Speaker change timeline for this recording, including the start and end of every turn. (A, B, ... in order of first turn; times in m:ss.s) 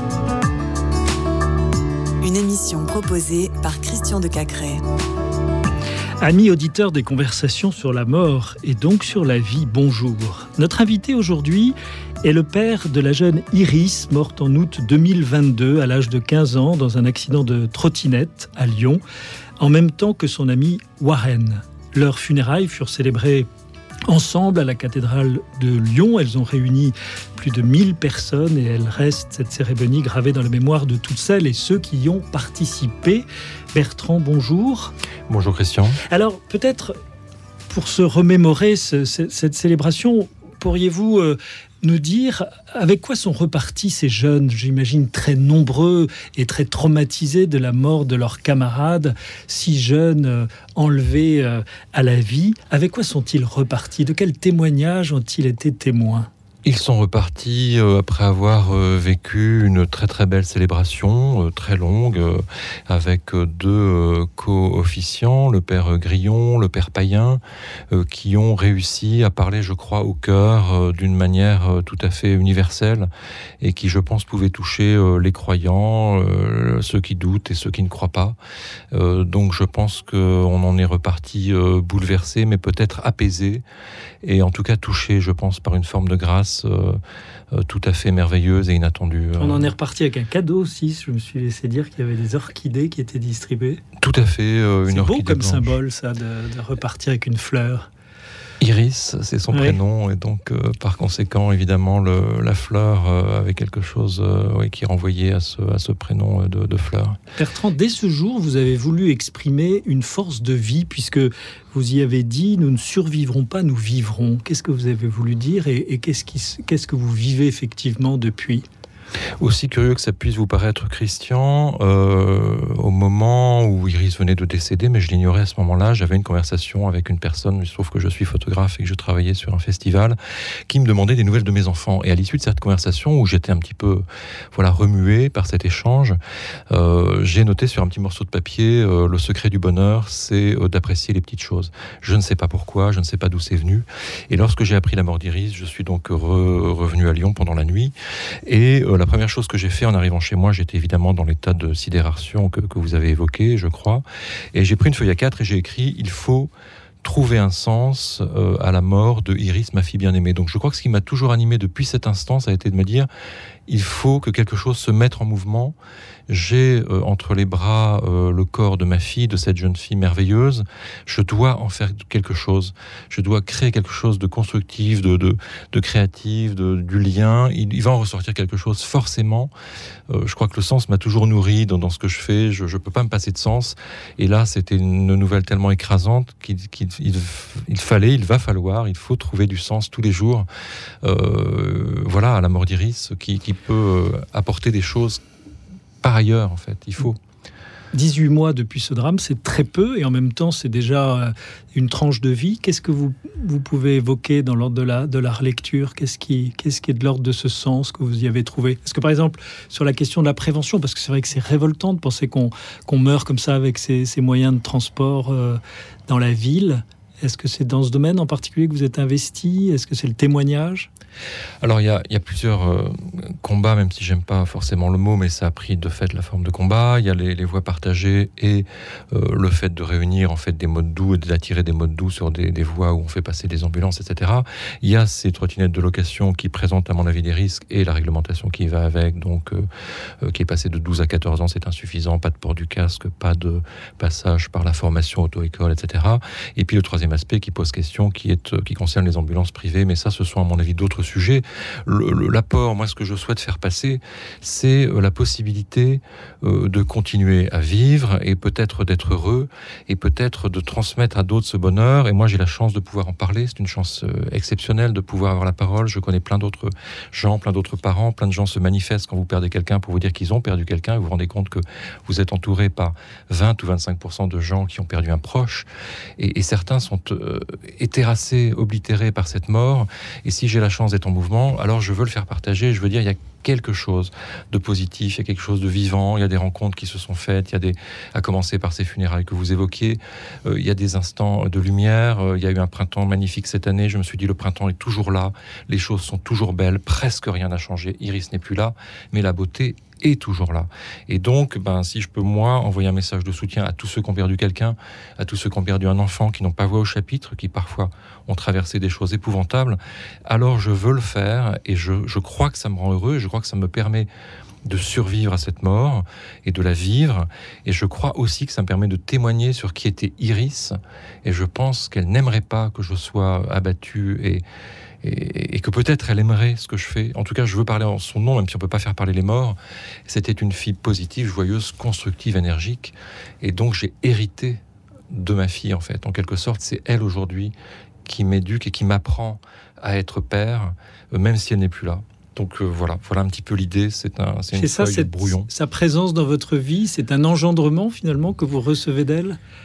0:02.2-0:04.8 A
0:06.2-0:19.0 B
0:19.6-0:23.5 B
0:24.1-0:34.9 B
0:35.3-0:36.0 C
0:36.1-0:36.9 B
0:37.7-0:56.3 B
0:56.6-1:13.1 C
1:13.6-1:18.4 C
1:18.9-1:23.6 C
1:24.2-1:27.0 C
1:27.5-1:29.7 C
1:29.4-1:33.8 B
1:34.0-1:35.8 C
1:34.8-1:37.9 B
1:38.6-1:47.2 C
1:39.5-1:39.8 B
1:47.4-1:58.6 B
1:59.4-2:16.2 C
2:16.7-2:27.9 C
2:28.4-2:36.5 C
2:37.0-2:43.1 C
2:43.7-2:45.8 C
2:46.3-2:59.5 C
3:00.1-3:10.5 C
3:11.0-3:15.2 C
3:16.0-3:17.2 C
3:17.9-3:40.9 B
3:41.6-3:59.7 C
4:00.2-5:14.1 C
5:14.6-5:24.4 C
5:25.0-5:34.6 C
5:35.1-5:37.5 C
5:38.0-5:45.5 C
5:44.5-5:49.4 B